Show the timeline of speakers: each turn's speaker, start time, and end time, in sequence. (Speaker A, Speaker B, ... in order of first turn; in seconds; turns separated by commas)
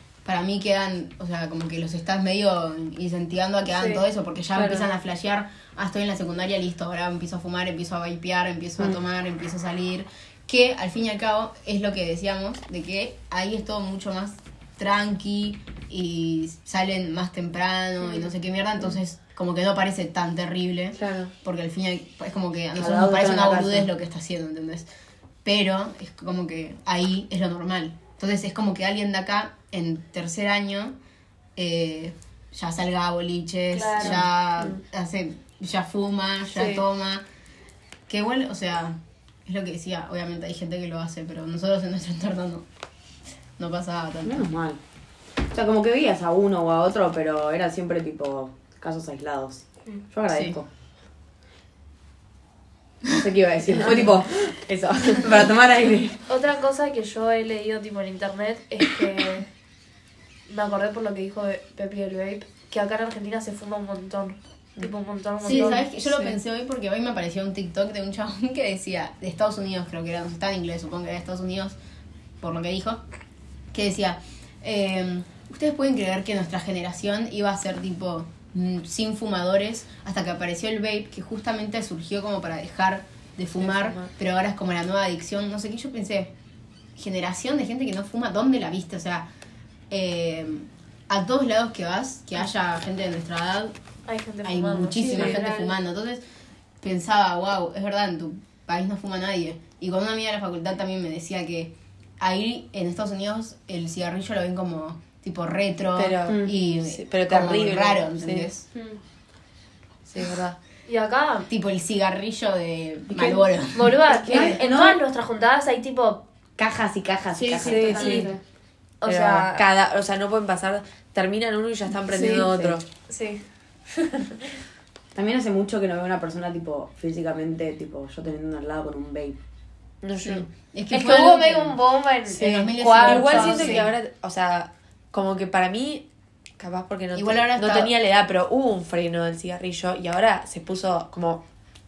Speaker A: 0.2-24.9, Speaker B: 3.7-4.0, Speaker C: 4.5-4.8, Speaker C: 20.9-21.3, Speaker D: 22.8-23.9, Speaker A: 25.4-30.9, Speaker A: 31.6-37.2, Speaker B: 33.7-34.2, Speaker B: 36.5-36.8, Speaker A: 38.1-42.6, Speaker A: 43.6-44.5, Speaker D: 44.2-44.8, Speaker D: 45.5-50.7, Speaker A: 50.3-50.5, Speaker D: 53.1-56.2, Speaker B: 56.3-59.5, Speaker B: 60.5-65.8, Speaker A: 65.4-71.8, Speaker C: 65.5-66.4, Speaker A: 72.4-73.0, Speaker A: 73.7-86.3, Speaker C: 83.6-84.1, Speaker A: 87.0-89.3, Speaker A: 89.9-93.7, Speaker B: 94.1-95.4, Speaker A: 94.4-96.2, Speaker E: 95.0-95.7, Speaker A: 96.8-108.7, Speaker C: 105.9-108.5, Speaker D: 106.3-106.5, Speaker E: 108.7-109.0, Speaker C: 110.1-110.6, Speaker B: 110.9-111.5, Speaker A: 111.5-114.0, Speaker D: 113.1-113.4, Speaker B: 113.7-116.2, Speaker D: 114.1-115.0, Speaker C: 114.3-114.6, Speaker D: 116.6-118.2, Speaker E: 117.3-118.4, Speaker C: 117.6-118.3, Speaker B: 117.7-118.3, Speaker B: 119.0-119.6, Speaker C: 119.0-122.8, Speaker B: 122.1-122.5, Speaker D: 122.1-122.8, Speaker B: 123.1-124.4, Speaker D: 125.1-129.4, Speaker C: 130.0-130.4, Speaker A: 130.2-131.8, Speaker B: 130.9-133.8, Speaker A: 132.3-133.9, Speaker C: 132.4-136.1, Speaker C: 136.6-141.4, Speaker A: 137.1-137.9